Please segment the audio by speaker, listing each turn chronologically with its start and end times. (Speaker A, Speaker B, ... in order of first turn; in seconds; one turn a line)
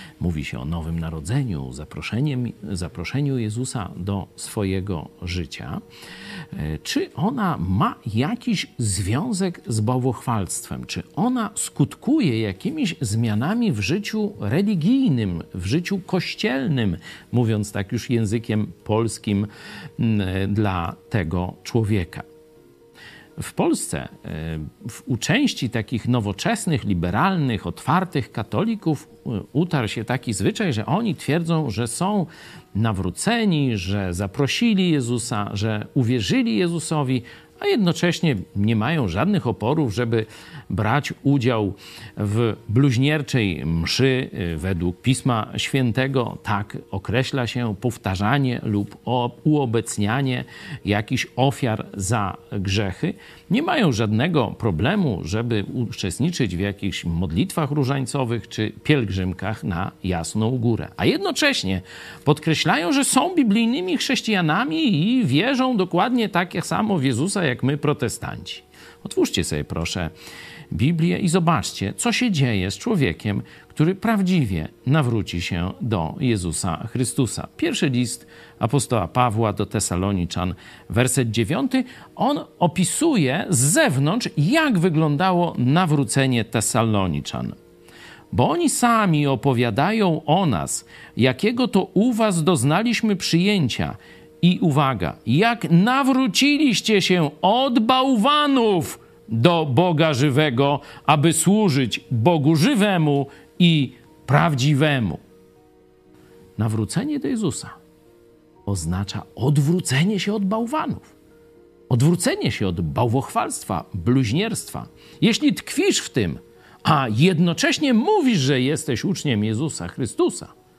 Speaker A: 0.2-5.8
Speaker A: 6.5-22.2
Speaker A: 23.4-70.1
Speaker A: 70.7-87.5
Speaker A: 88.3-105.2
Speaker A: 106.6-107.8
Speaker A: 108.7-111.1
Speaker A: 111.9-120.5